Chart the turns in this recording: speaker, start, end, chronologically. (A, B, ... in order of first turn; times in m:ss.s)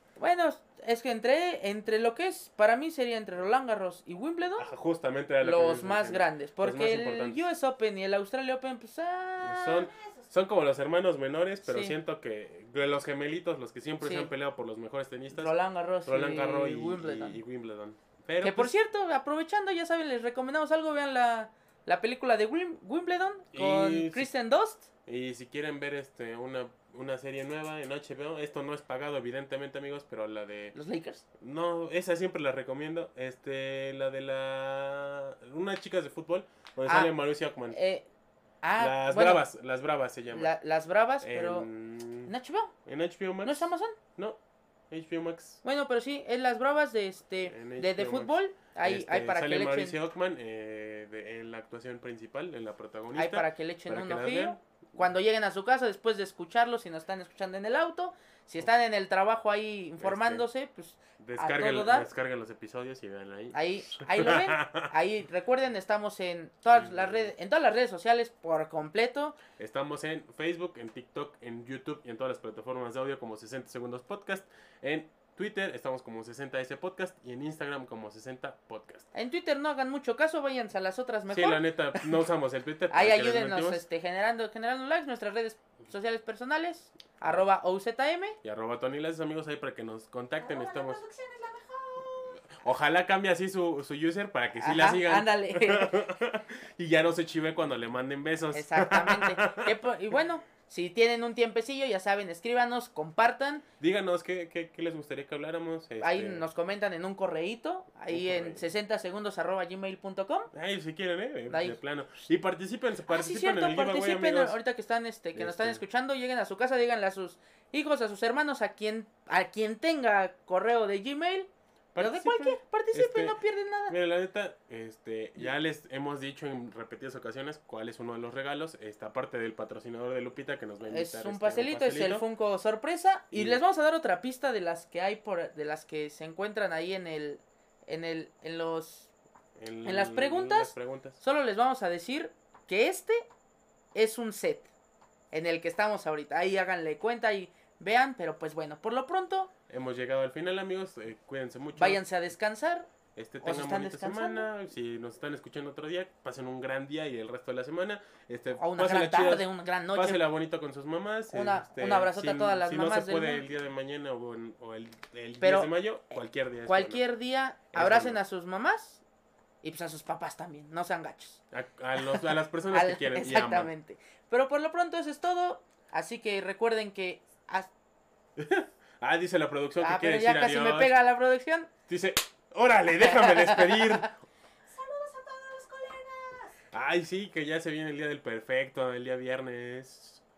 0:00.2-0:04.7 A
0:04.6-0:07.5 B
0:05.4-0:09.9 A
0:09.4-0:18.7 B
0:11.6-0:12.0 A
0:14.0-0:14.3 A
0:15.3-0:17.4 A
0:18.4-0:24.9 A
0:23.5-0:24.3 B
0:25.0-0:30.8 B
0:30.7-0:31.2 A
0:31.4-0:37.8 B
0:36.8-0:37.1 A
0:37.7-0:38.0 A
0:38.6-0:39.4 A
0:38.8-0:40.5 B
0:40.3-0:41.7 A
0:41.2-0:42.3 B
0:42.2-0:42.7 A
0:42.8-0:44.4 B
0:43.4-0:44.0 A
0:44.9-0:45.6 B
0:45.6-0:50.0 A
0:47.5-0:54.6 B
0:53.1-1:02.1 A
1:00.0-1:00.4 B
1:01.2-1:04.9 B
1:03.5-1:09.4 A
1:06.7-1:07.3 B
1:09.6-1:19.0 B
1:19.1-1:22.2 A
1:21.3-1:23.8 B
1:22.9-1:28.4 A
1:28.4-1:31.1 B
1:31.1-1:32.1 A
1:32.5-1:39.8 B
1:34.5-1:36.1 A
1:38.5-1:43.6 A
1:43.8-1:46.4 B
1:46.0-1:50.5 A
1:48.1-1:48.6 B
1:50.5-1:54.6 B
1:51.5-1:51.8 A
1:53.1-2:04.0 A
1:55.3-1:55.8 B
2:01.9-2:12.2 B
2:10.8-2:19.1 A
2:13.3-2:13.6 B
2:19.6-2:21.2 B
2:19.8-2:23.2 A
2:23.9-2:24.7 A
2:25.3-2:29.5 A
2:29.7-2:32.0 B
2:31.8-2:32.9 A
2:33.1-2:47.0 B
2:33.4-2:34.5 A
2:38.6-2:40.2 A
2:41.3-2:43.4 A
2:45.4-2:45.7 A
2:46.6-2:49.0 A
2:47.7-2:48.2 B
2:49.6-2:51.4 A
2:51.5-2:53.7 B
2:52.0-2:57.7 A
2:58.4-3:01.0 B
2:59.8-3:01.7 A
3:01.9-3:04.2 B
3:03.0-3:04.1 A
3:04.9-3:06.5 A
3:06.7-3:10.2 B